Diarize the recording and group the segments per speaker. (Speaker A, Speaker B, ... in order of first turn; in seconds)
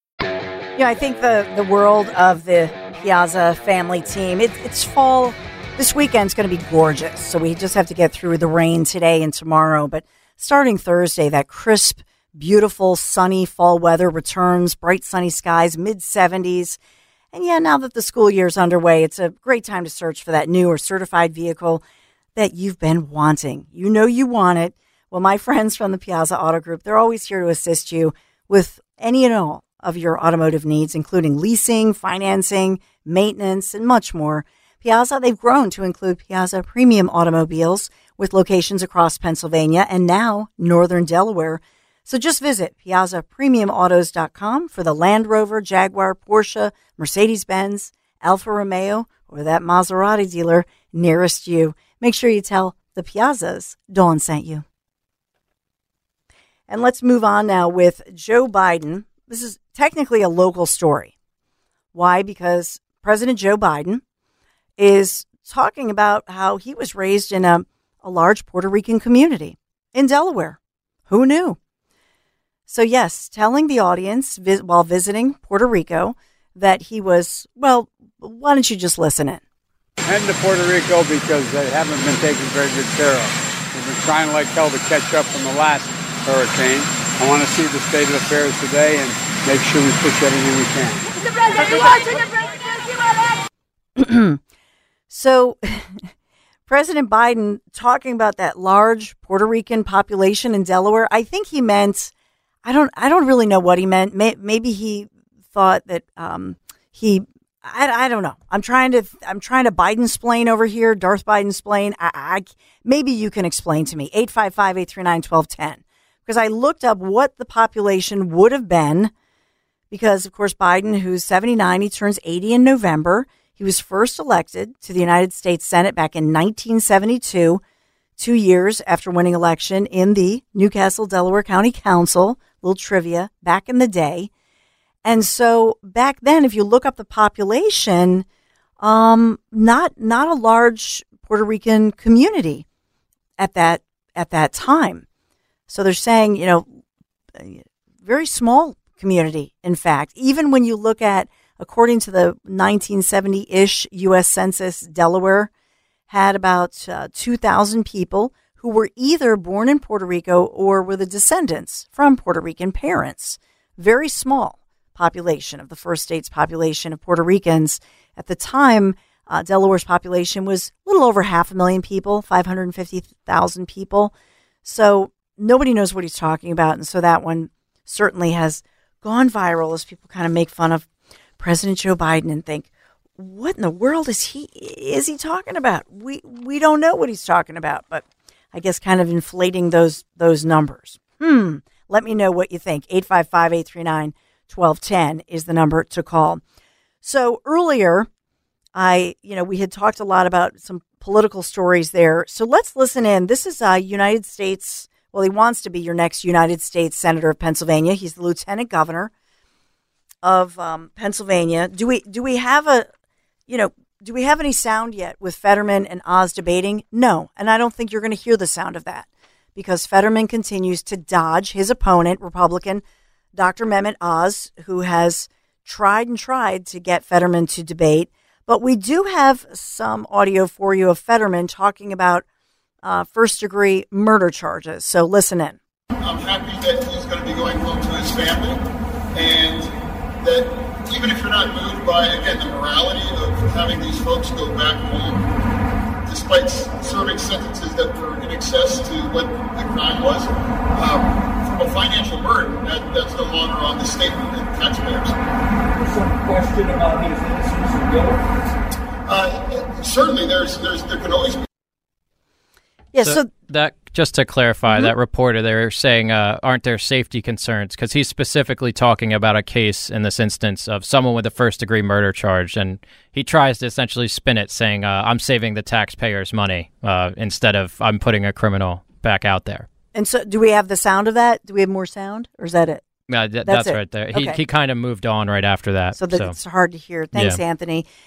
Speaker A: 0.8-16.8, 17.3-21.8, 22.4-54.6, 56.7-61.1, 61.9-64.0, 64.8-71.6, 72.7-79.4, 94.0-94.4, 95.1-96.1, 96.7-102.1, 102.6-119.1, 119.9-127.6, 128.2-134.3, 135.0-138.2, 138.8-142.6, 143.4-145.1, 145.7-146.8, 147.3-155.5, 156.1-174.1, 174.6-180.9, 181.4-196.4, 197.0-198.1, 198.7-209.1, 210.2-212.9, 213.5-222.8, 223.3-232.2, 232.8-235.6, 262.9-263.3, 264.7-264.9, 279.9-282.8, 283.4-284.4, 285.9-287.9
Speaker B: 80.0-92.2
Speaker C: 236.0-238.6, 239.1-245.3, 246.1-255.2, 259.1-261.4
Speaker D: 255.8-258.4
Speaker E: 263.0-279.7, 283.1-286.3, 287.1-287.4